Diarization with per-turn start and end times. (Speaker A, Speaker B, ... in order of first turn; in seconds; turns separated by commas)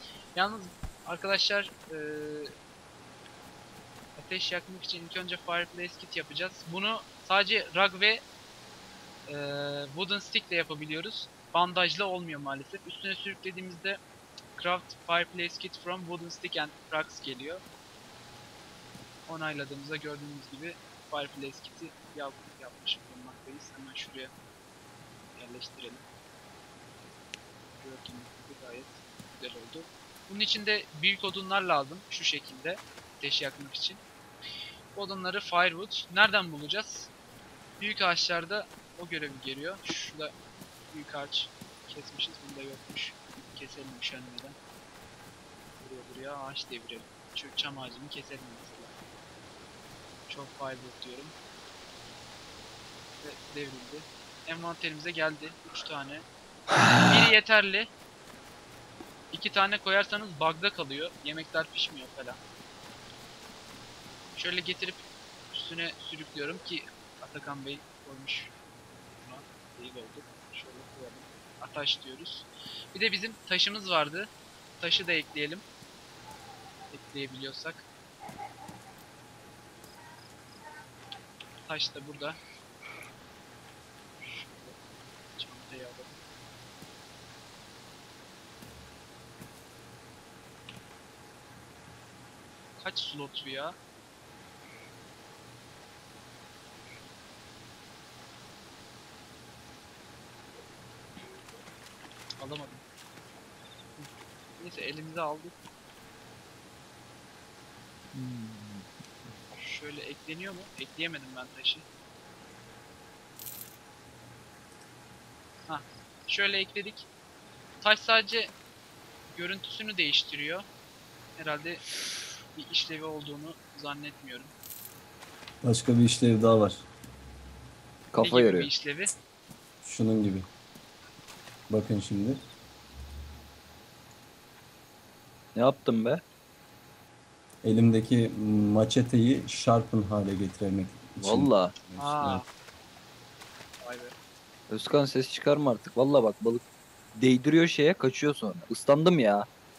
Speaker A: 0.3-2.5, Speaker A: 4.2-8.2, Speaker A: 9.3-14.0, Speaker A: 14.6-17.6, Speaker A: 19.3-24.3, Speaker A: 25.4-26.0, Speaker A: 27.8-34.0, Speaker A: 34.9-37.1, Speaker A: 37.8-40.3, Speaker A: 40.9-44.5, Speaker A: 45.8-48.9, Speaker A: 50.3-51.3, Speaker A: 53.2-56.3, Speaker A: 57.0-57.9, Speaker A: 59.3-62.4, Speaker A: 64.3-68.5, Speaker A: 69.2-75.6, Speaker A: 76.9-77.8, Speaker A: 81.7-82.4, Speaker A: 84.2-84.8, Speaker A: 85.3-86.2, Speaker A: 92.8-93.8, Speaker A: 102.4-102.8, Speaker A: 104.0-105.6, Speaker B: 108.1-108.8, Speaker A: 109.6-111.8, Speaker A: 115.7-117.1, Speaker A: 117.8-118.5, Speaker A: 119.3-120.7, Speaker A: 121.4-121.8, Speaker A: 122.5-124.5, Speaker C: 125.6-126.9, Speaker B: 128.1-128.7, Speaker A: 128.2-129.1, Speaker C: 129.8-130.5, Speaker C: 131.7-132.4, Speaker B: 135.6-136.2, Speaker C: 137.6-142.4, Speaker B: 141.2-141.7, Speaker A: 142.0-142.4, Speaker A: 143.8-144.1, Speaker B: 144.7-146.6, Speaker B: 147.2-149.5